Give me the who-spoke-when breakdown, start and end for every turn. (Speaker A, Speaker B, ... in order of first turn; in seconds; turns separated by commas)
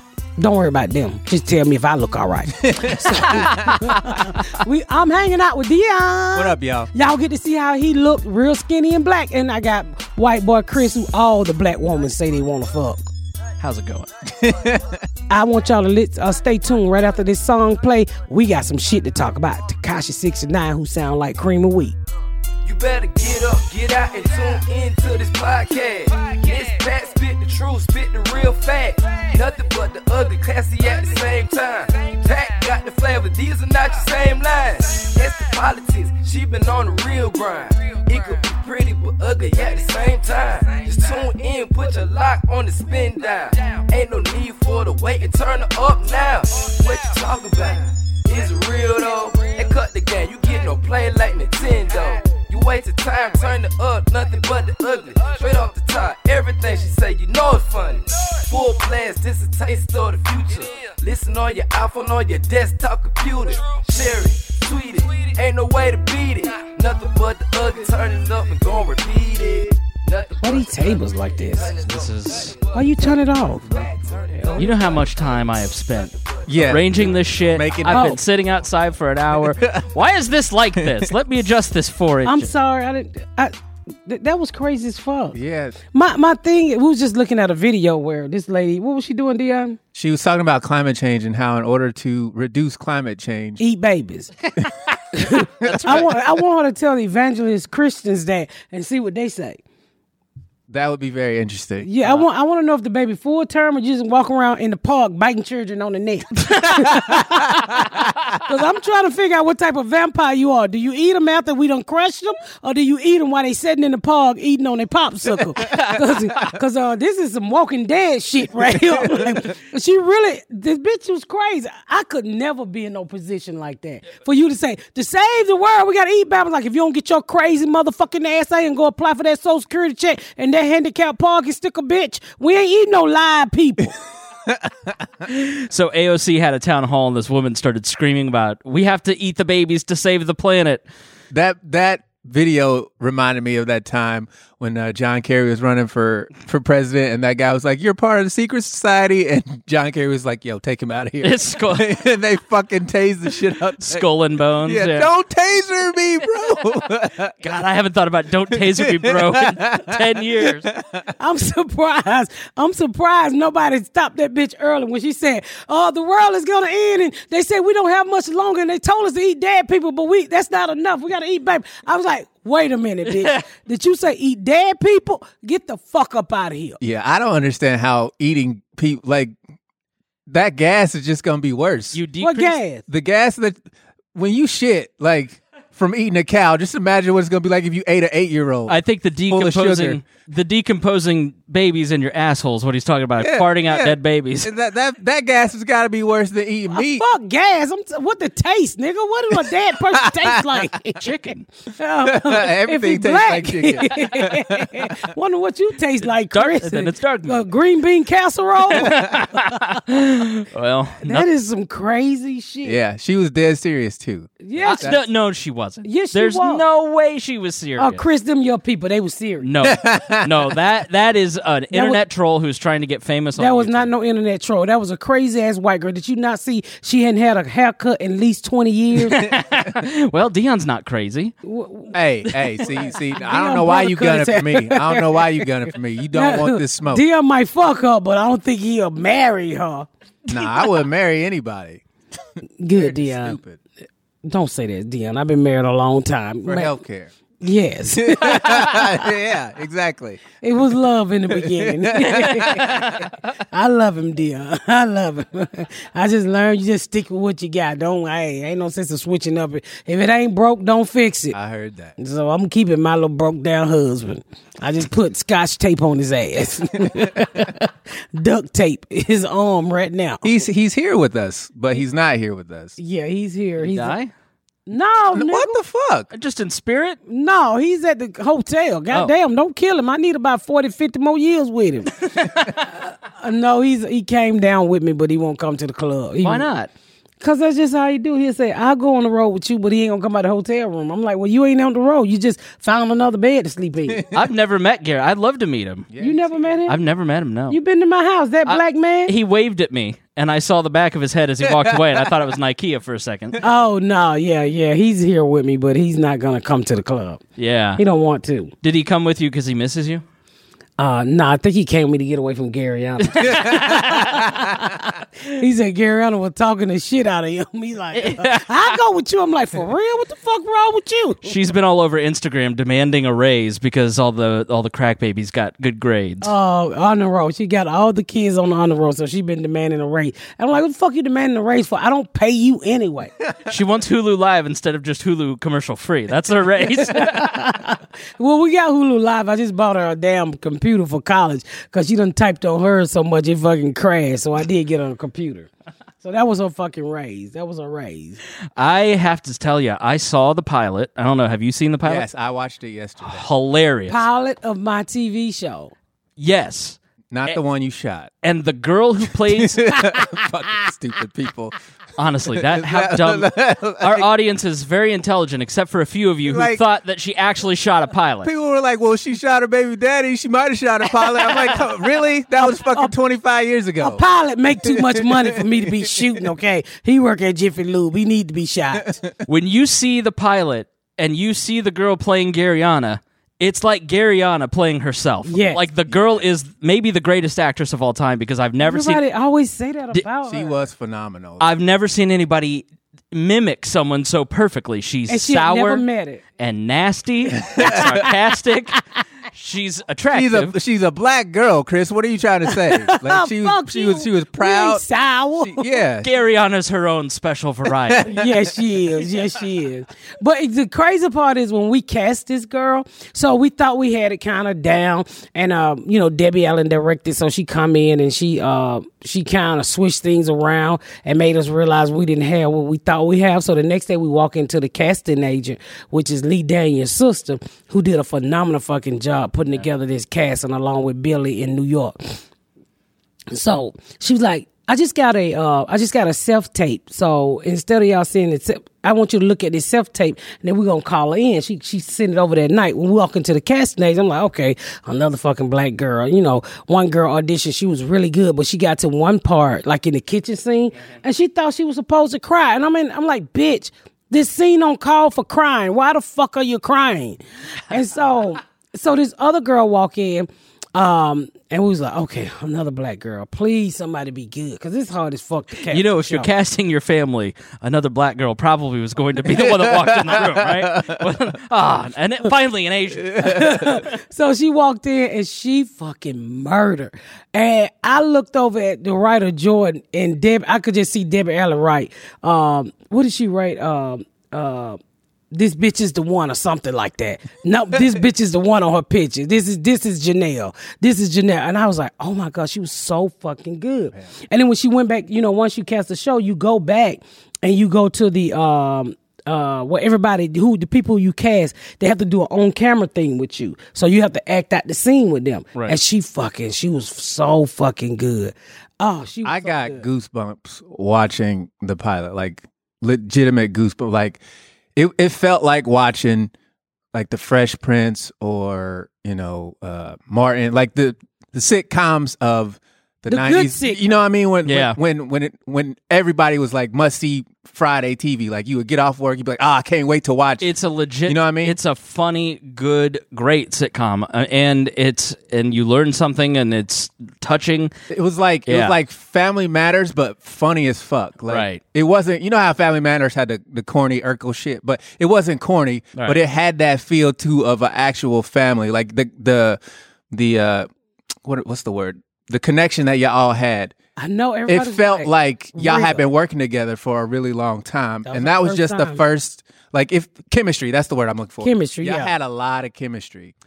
Speaker A: 0.4-13.1, Speaker B: 2.6-4.0, Speaker B: 6.3-6.9, Speaker C: 13.6-14.1, Speaker B: 14.2-15.0, Speaker A: 15.3-21.9, Speaker D: 22.6-77.8, Speaker A: 70.4-71.7, Speaker C: 71.8-72.5, Speaker A: 72.7-73.7, Speaker C: 74.6-82.5, Speaker B: 76.5-78.2, Speaker A: 77.9-78.2, Speaker B: 79.3-79.9, Speaker B: 80.8-81.1, Speaker A: 82.2-83.5, Speaker A: 84.1-85.4, Speaker B: 85.3-85.8, Speaker A: 85.9-89.8, Speaker B: 89.9-93.6, Speaker A: 93.6-94.5, Speaker A: 95.1-99.6, Speaker B: 95.2-96.1, Speaker C: 95.6-96.1, Speaker B: 100.7-101.9, Speaker A: 101.8-133.9, Speaker B: 106.7-107.8, Speaker B: 115.6-115.9, Speaker C: 115.7-116.0, Speaker B: 118.6-119.5, Speaker B: 134.5-134.9, Speaker C: 135.3-140.8, Speaker B: 141.3-157.3, Speaker C: 151.2-152.0, Speaker C: 153.8-155.1, Speaker C: 157.4-160.7, Speaker B: 158.5-161.0, Speaker A: 161.2-176.8, Speaker B: 176.8-179.3, Speaker B: 180.3-182.0, Speaker C: 181.9-182.6, Speaker A: 182.2-182.8, Speaker B: 182.9-183.6, Speaker B: 184.2-188.8, Speaker C: 188.7-194.5, Speaker B: 189.3-190.0, Speaker B: 193.2-197.1, Speaker A: 196.7-201.1, Speaker B: 200.0-200.6, Speaker C: 201.0-201.4, Speaker A: 201.8-209.7, Speaker B: 202.0-204.9, Speaker C: 206.0-207.5, Speaker C: 208.7-211.3, Speaker A: 211.0-212.8, Speaker B: 212.6-215.0, Speaker A: 214.4-215.0, Speaker C: 214.6-218.0, Speaker A: 215.8-216.6, Speaker A: 217.8-219.5, Speaker C: 219.4-223.9, Speaker B: 219.6-220.5, Speaker A: 221.7-222.0, Speaker A: 223.4-229.2, Speaker C: 229.0-231.3, Speaker A: 231.4-235.3, Speaker B: 231.9-237.1, Speaker A: 236.1-239.9, Speaker B: 240.3-241.8, Speaker A: 242.6-243.4, Speaker B: 242.7-243.6, Speaker A: 244.2-246.7, Speaker B: 246.4-247.1, Speaker A: 247.4-249.1, Speaker B: 247.9-250.2, Speaker A: 250.4-261.4, Speaker B: 251.3-253.0, Speaker C: 252.6-253.0, Speaker B: 261.3-261.9, Speaker A: 262.0-270.4, Speaker B: 270.2-272.8, Speaker A: 272.8-273.9, Speaker C: 273.6-274.1, Speaker A: 274.7-275.6, Speaker B: 275.1-276.1, Speaker C: 276.1-277.0, Speaker A: 277.1-286.5, Speaker C: 286.2-286.7, Speaker A: 287.2-294.0, Speaker B: 293.9-294.3, Speaker C: 294.1-295.9, Speaker B: 295.9-296.6, Speaker A: 296.0-296.8, Speaker C: 296.7-297.6, Speaker A: 297.5-299.1, Speaker C: 298.5-303.4, Speaker B: 301.4-302.0, Speaker A: 303.4-307.2, Speaker C: 307.4-307.8, Speaker A: 307.8-308.5, Speaker C: 308.6-310.0, Speaker A: 310.8-321.3, Speaker C: 313.1-314.3, Speaker C: 317.9-318.8, Speaker C: 321.2-326.3, Speaker A: 326.2-333.1, Speaker C: 333.5-337.1, Speaker A: 336.7-345.5, Speaker A: 346.0-348.2, Speaker C: 348.6-352.1, Speaker B: 351.8-353.3, Speaker C: 353.0-354.0, Speaker A: 353.9-355.7, Speaker C: 356.2-357.4, Speaker B: 357.1-358.1, Speaker C: 358.2-359.6, Speaker B: 359.3-361.5, Speaker C: 362.0-368.3, Speaker B: 362.3-364.1, Speaker B: 366.3-366.6, Speaker B: 368.2-374.0, Speaker A: 372.5-372.9, Speaker A: 373.8-378.9, Speaker B: 374.6-376.2, Speaker B: 378.8-379.1, Speaker C: 379.3-389.0, Speaker A: 385.2-385.6, Speaker B: 385.9-386.2, Speaker A: 388.6-390.6, Speaker B: 390.2-391.5, Speaker C: 391.4-395.9, Speaker A: 395.1-396.2, Speaker C: 396.4-400.5, Speaker B: 397.5-397.9, Speaker B: 400.1-404.8, Speaker A: 402.6-405.7, Speaker B: 405.4-406.1, Speaker C: 406.0-408.1, Speaker B: 407.9-408.3, Speaker A: 408.1-432.2, Speaker A: 433.3-466.3, Speaker C: 465.7-473.9, Speaker B: 469.3-471.1, Speaker B: 473.1-473.6, Speaker A: 473.2-484.8, Speaker A: 485.3-509.9, Speaker B: 509.2-514.2, Speaker B: 514.8-516.3, Speaker B: 516.9-530.5, Speaker A: 523.1-523.8, Speaker C: 524.5-524.8, Speaker C: 530.4-537.7, Speaker B: 531.1-531.6, Speaker B: 537.9-549.6, Speaker C: 538.5-538.8, Speaker C: 541.3-541.6, Speaker B: 550.1-550.7, Speaker B: 551.2-553.8, Speaker A: 554.0-556.0, Speaker B: 554.5-563.3, Speaker A: 558.1-559.0, Speaker A: 561.4-562.1